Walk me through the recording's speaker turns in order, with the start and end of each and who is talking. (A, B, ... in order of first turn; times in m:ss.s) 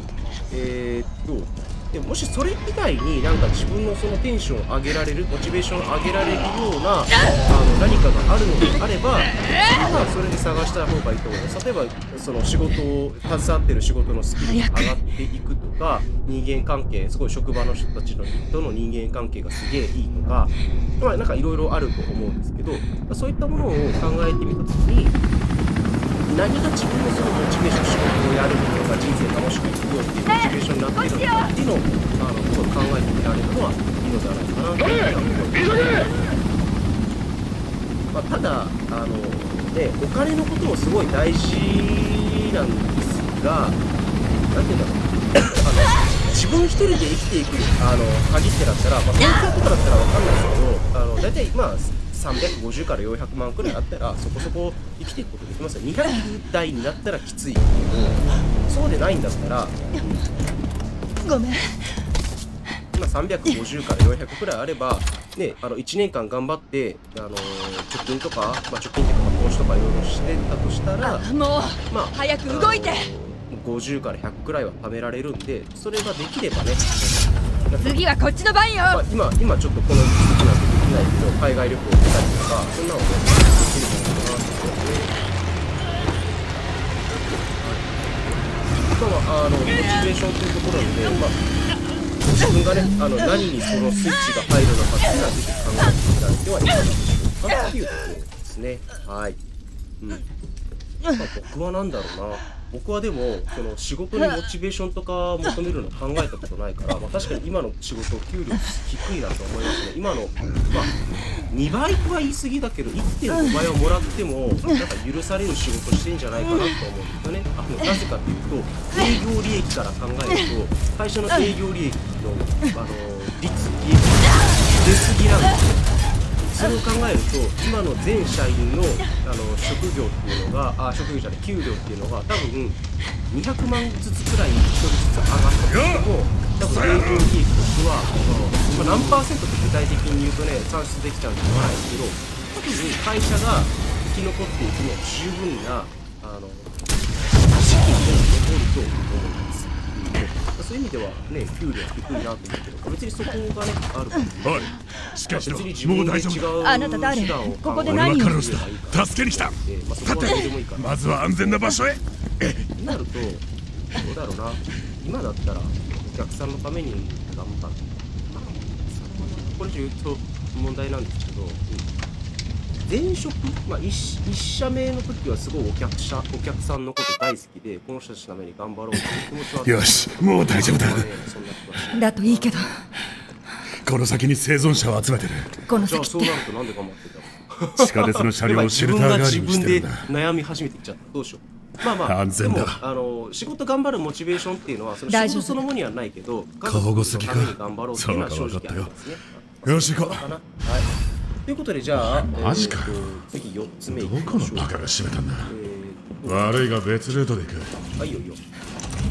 0:00.5-0:25.2 A
0:14.4-0:14.9 B
0:26.2-0:36.3 A
0:30.3-0:31.5 B
0:38.1-0:43.8 A
0:44.5-1:00.2 A
1:01.2-1:01.8 B
1:03.0-1:11.3 A
1:11.0-1:13.1 B
1:11.9-1:18.0 A
1:17.8-1:19.0 B
1:18.9-1:25.2 A
1:27.5-1:31.4 A
1:32.3-1:39.4 A
1:41.2-1:51.0 A
1:51.5-2:05.8 A
2:06.4-2:12.8 A
2:13.3-2:34.8 A
2:16.9-2:17.2 C
2:34.4-2:36.5 C
2:35.3-2:41.8 A
2:36.6-2:38.4 B
2:37.9-2:42.7 C
2:42.8-2:51.9 A
2:52.8-3:02.7 A
2:58.9-3:01.1 C
3:01.9-3:02.8 B
3:03.8-3:05.6 C
3:05.7-3:06.4 B
3:05.8-3:20.9 A
3:07.8-3:10.1 C
3:12.1-3:12.8 C
3:15.1-3:15.6 B
3:16.6-3:19.1 C
3:19.7-3:20.2 C
3:21.5-3:24.9 A
3:22.0-3:23.2 C
3:23.9-3:25.5 C
3:25.4-3:26.6 A
3:26.3-3:27.8 C
3:28.0-3:28.4 A